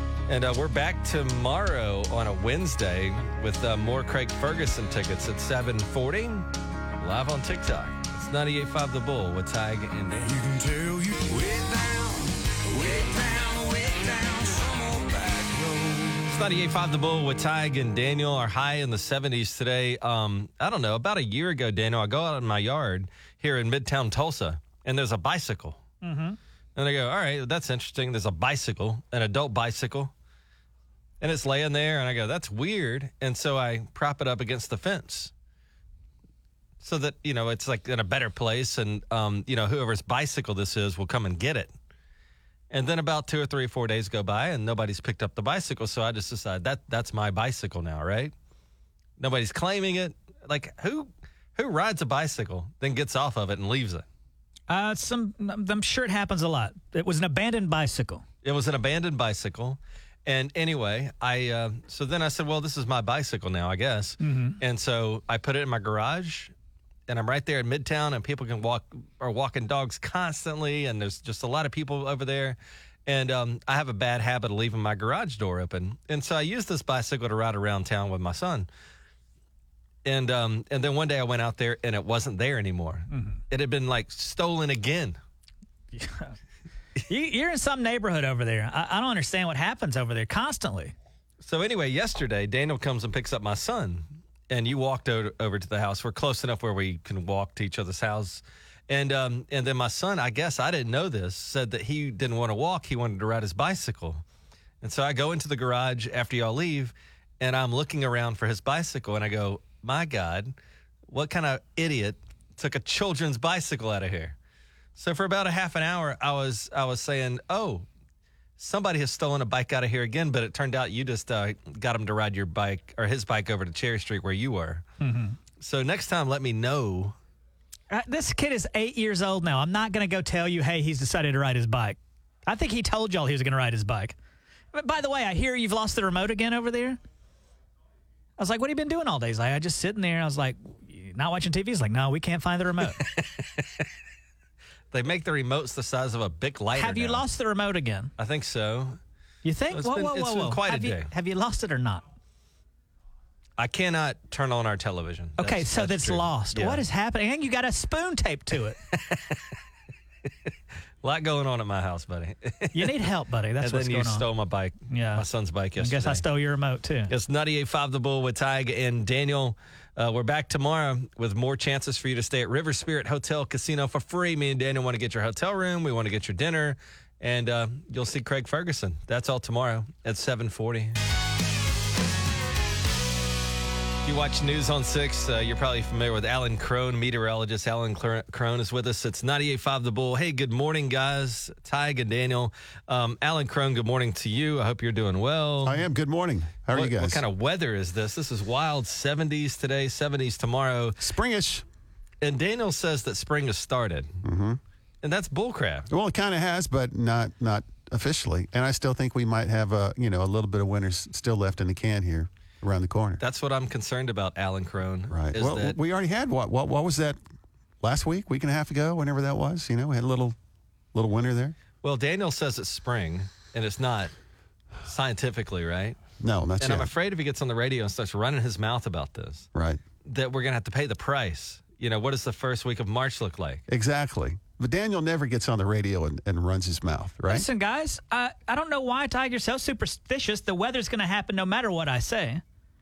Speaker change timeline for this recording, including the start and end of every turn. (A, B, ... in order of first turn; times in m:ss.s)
0:00.3-0:10.5 A
0:10.5-0:12.1 B
0:12.8-0:13.2 A
0:13.4-0:16.0 B
0:16.2-0:25.8 A
0:26.0-0:26.4 C
0:26.8-0:30.1 A
0:31.2-0:35.3 A
0:36.8-0:41.7 A
0:42.7-0:48.3 A
0:49.2-0:54.0 A
0:54.7-0:58.2 C
0:58.4-1:06.5 A
1:04.2-1:04.6 C
1:07.1-1:18.7 A
1:20.0-1:25.2 A
1:23.1-1:23.4 C
1:25.9-1:26.4 C
1:27.1-1:30.9 C
1:31.4-1:44.2 A
1:44.8-1:50.6 A
1:51.1-1:54.4 A
1:54.9-1:57.9 A
1:58.6-2:04.8 A
2:05.0-2:05.4 C
2:05.6-2:07.2 A
2:07.9-2:14.2 C
2:14.7-2:17.0 C
2:18.4-2:23.0 C
2:23.0-2:23.9 A
2:24.9-2:27.2 A
2:26.8-2:28.1 C
2:28.2-2:29.0 A
2:29.4-2:32.0 C
2:29.7-2:31.1 A
2:33.6-2:36.8 A
2:35.4-2:38.8 C
2:38.9-2:39.6 A
2:41.0-2:43.1 A
2:42.7-2:44.3 C
2:43.6-2:46.2 A
2:44.9-2:45.2 C
2:45.8-2:47.1 C
2:47.1-3:01.0 A
3:04.0-3:15.8 A
3:15.6-3:17.2 B
3:16.7-3:21.0 A
3:21.0-3:21.6 B
3:22.2-3:24.2 A
3:24.2-3:24.6 B
3:25.0-3:25.9 A
3:25.9-3:33.2 B
3:33.2-3:35.8 A
3:35.1-3:37.2 B
3:37.8-3:40.4 B
3:40.9-3:41.5 B
3:41.8-3:44.1 A
3:44.8-3:46.0 A
3:46.2-3:46.9 B
3:46.6-3:49.5 A
3:49.5-3:49.8 B
3:50.0-3:53.6 A
3:53.7-3:57.5 B
3:57.3-4:02.4 C